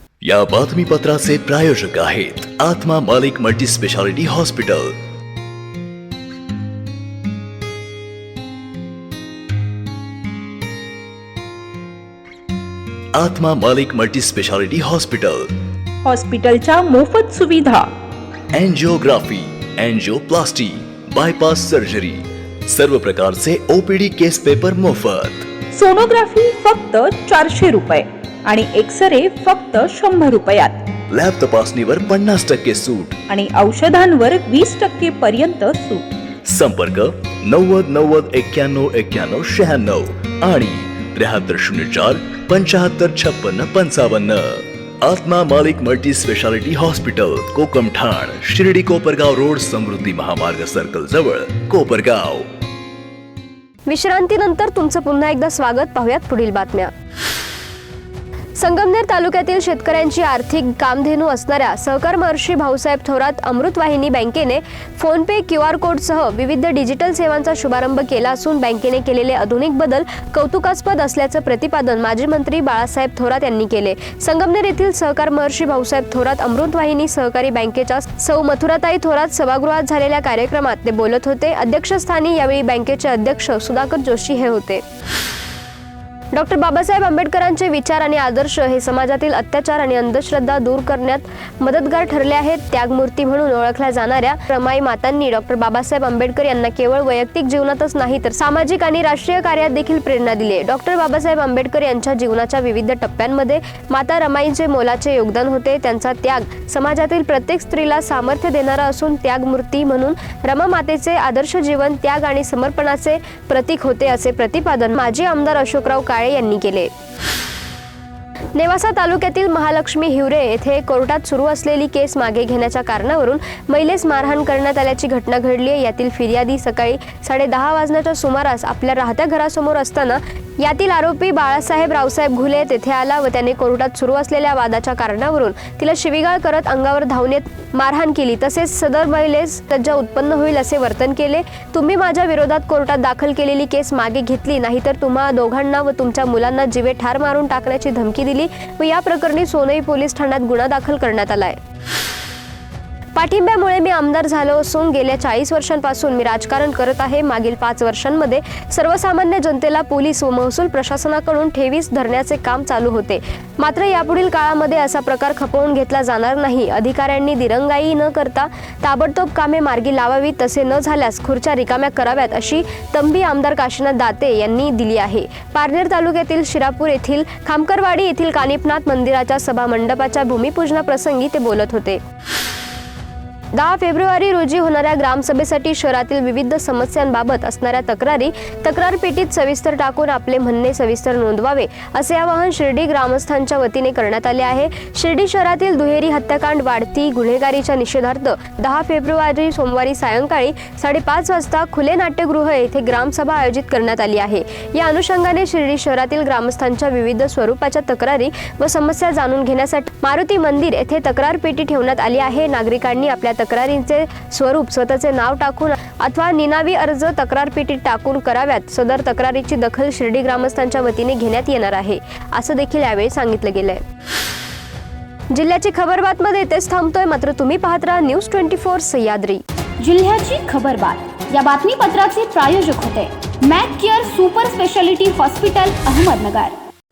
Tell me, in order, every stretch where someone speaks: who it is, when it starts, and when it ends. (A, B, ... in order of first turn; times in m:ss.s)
0:00.2-0:05.0 A
0:13.1-0:15.6 A
0:16.0-0:17.9 B
0:18.5-0:25.5 A
0:25.7-0:30.8 B
0:31.1-0:33.2 A
0:33.3-0:36.1 B
0:36.4-0:52.5 A
0:53.9-0:56.9 C
0:58.6-1:24.8 C
1:26.3-1:56.9 C
1:58.5-2:31.6 C
2:33.1-3:02.0 C
3:03.5-3:43.8 C
3:45.3-3:49.4 C
3:49.8-3:56.6 D